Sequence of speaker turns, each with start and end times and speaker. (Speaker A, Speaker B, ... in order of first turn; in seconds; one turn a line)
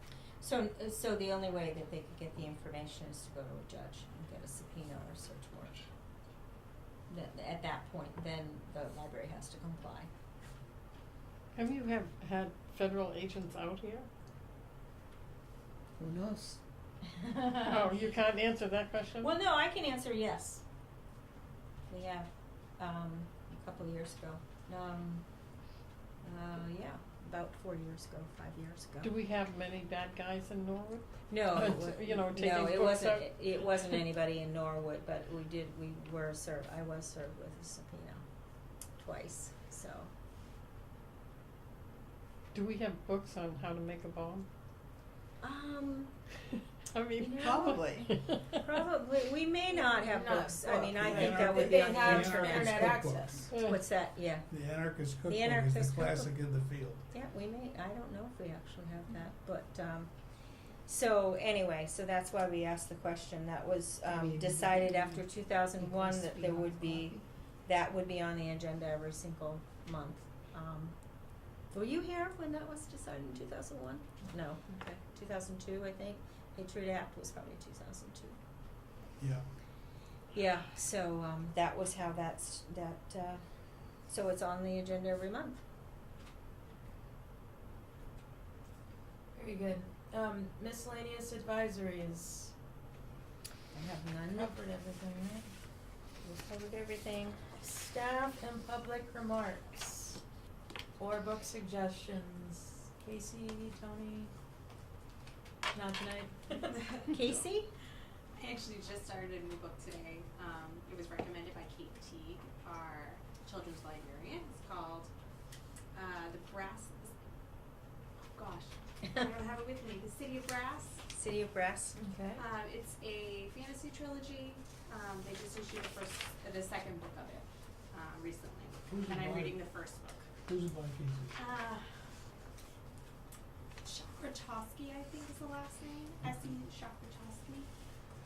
Speaker A: 0.4-5.8
Speaker A: 7.1-10.1
Speaker B: 11.5-14.1
Speaker C: 16.0-16.6
Speaker A: 17.4-17.7
Speaker B: 17.6-19.3
Speaker A: 19.2-20.6
Speaker A: 21.9-25.2
Speaker A: 26.2-29.1
Speaker B: 29.0-34.0
Speaker A: 31.3-38.2
Speaker A: 39.0-40.1
Speaker B: 42.5-44.5
Speaker A: 45.4-46.1
Speaker B: 46.9-48.7
Speaker A: 47.2-54.5
Speaker C: 47.5-48.0
Speaker D: 49.9-53.5
Speaker E: 51.0-53.5
Speaker B: 53.5-53.8
Speaker E: 54.5-57.0
Speaker A: 55.2-56.3
Speaker A: 57.1-60.1
Speaker A: 60.9-70.9
Speaker C: 64.1-65.1
Speaker C: 65.8-67.2
Speaker A: 71.7-78.4
Speaker E: 79.2-79.4
Speaker A: 80.3-83.4
Speaker A: 84.0-85.6
Speaker D: 89.3-92.5
Speaker A: 93.7-94.5
Speaker D: 94.3-95.5
Speaker A: 96.2-97.4
Speaker D: 97.6-100.2
Speaker D: 101.0-104.3
Speaker D: 105.7-107.0
Speaker F: 106.7-107.0
Speaker A: 107.1-107.7
Speaker F: 108.4-115.1
Speaker F: 115.9-117.1
Speaker F: 118.3-121.0
Speaker A: 121.1-122.0
Speaker D: 121.9-122.4
Speaker F: 122.3-130.3
Speaker E: 128.9-129.6
Speaker E: 130.4-131.3
Speaker F: 131.3-131.9
Speaker F: 133.8-137.7